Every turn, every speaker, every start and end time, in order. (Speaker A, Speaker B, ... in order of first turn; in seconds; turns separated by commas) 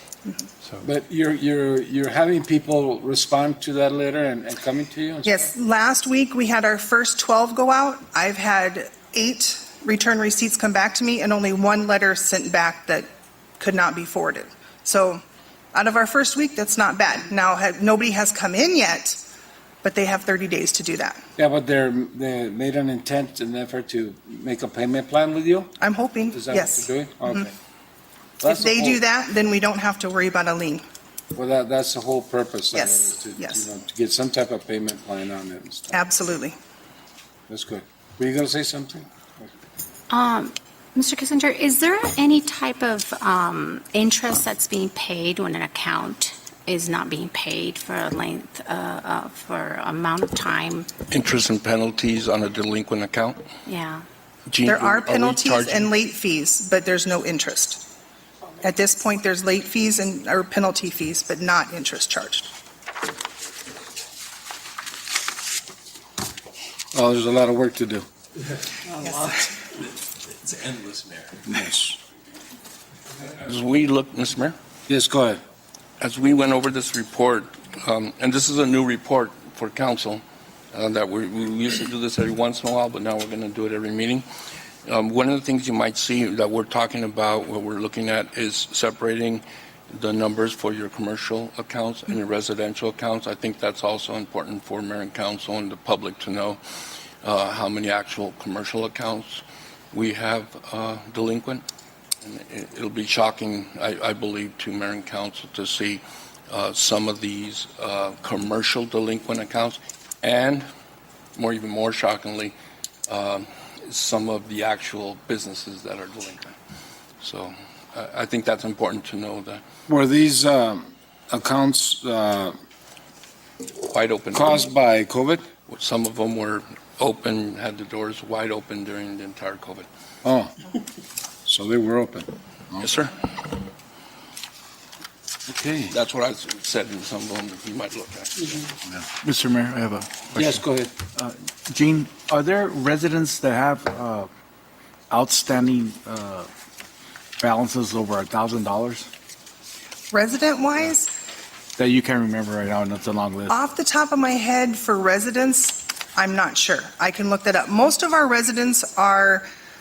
Speaker A: 0.8-5.5, Speaker B: 5.2-15.2, Speaker B: 15.7-19.2, Speaker B: 19.8-21.2, Speaker A: 21.4-25.7, Speaker B: 25.8-27.5, Speaker A: 26.3-27.5, Speaker A: 28.4-29.0, Speaker B: 28.5-30.8, Speaker A: 31.3-36.0, Speaker B: 32.7-33.6, Speaker B: 35.9-36.6, Speaker A: 37.5-39.5, Speaker C: 40.1-50.9, Speaker D: 51.1-53.4, Speaker C: 53.6-54.0, Speaker D: 54.5-55.9, Speaker B: 54.6-57.8, Speaker B: 58.6-62.5, Speaker A: 66.9-68.0, Speaker A: 71.5-72.0, Speaker D: 73.4-74.5, Speaker A: 74.9-75.4, Speaker D: 76.0-80.2, Speaker D: 80.7-84.2, Speaker D: 84.8-96.6, Speaker D: 97.2-101.6, Speaker D: 102.2-110.7, Speaker D: 111.3-112.5, Speaker D: 113.1-116.5, Speaker D: 117.2-119.6, Speaker A: 119.9-122.5, Speaker D: 123.8-124.7, Speaker A: 124.3-125.4, Speaker D: 125.7-129.8, Speaker A: 130.2-130.5, Speaker A: 131.4-132.9, Speaker D: 132.8-133.2, Speaker A: 135.5-136.0, Speaker D: 135.9-138.7, Speaker E: 139.2-140.6, Speaker A: 140.3-140.9, Speaker E: 141.1-144.3, Speaker E: 145.1-146.5, Speaker E: 147.4-149.1, Speaker B: 150.1-151.1, Speaker E: 151.8-153.6, Speaker B: 153.5-159.4